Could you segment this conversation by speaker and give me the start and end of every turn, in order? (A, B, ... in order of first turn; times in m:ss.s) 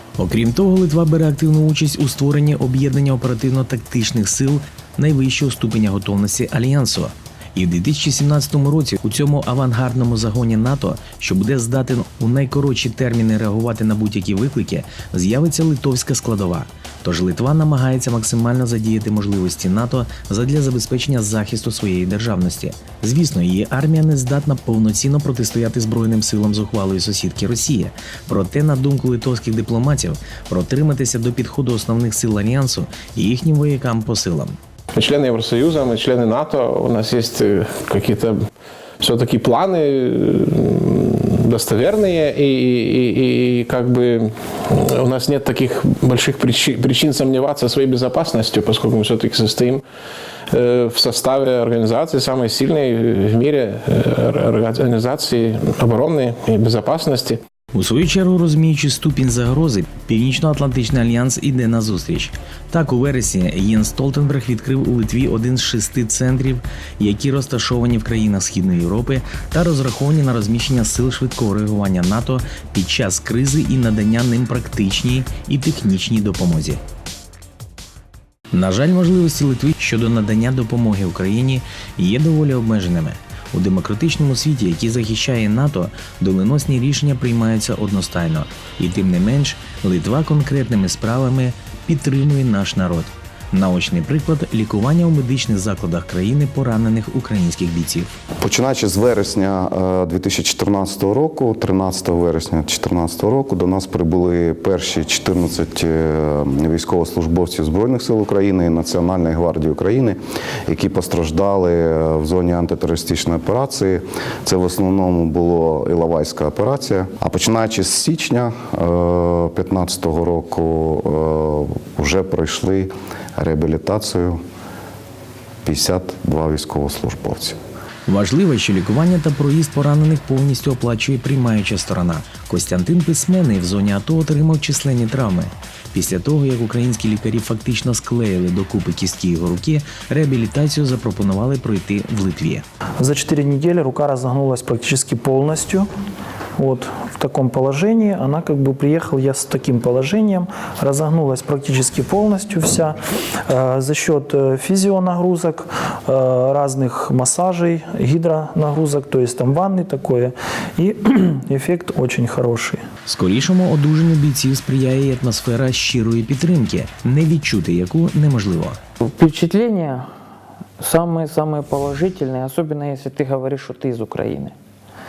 0:00.2-0:34.6 A
0:35.0-0:38.3 B
0:39.0-0:40.2 B
0:41.4-0:44.2 B
0:44.7-0:49.8 B
0:50.5-0:57.4 B
0:57.7-1:16.8 A
1:18.5-1:38.1 A
1:38.4-2:04.4 C
2:05.6-2:07.6 C
2:08.1-2:22.6 A
2:23.0-2:25.9 D
2:26.6-2:42.8 D
2:43.1-2:48.8 A
2:49.1-2:50.1 E
2:50.8-2:54.5 E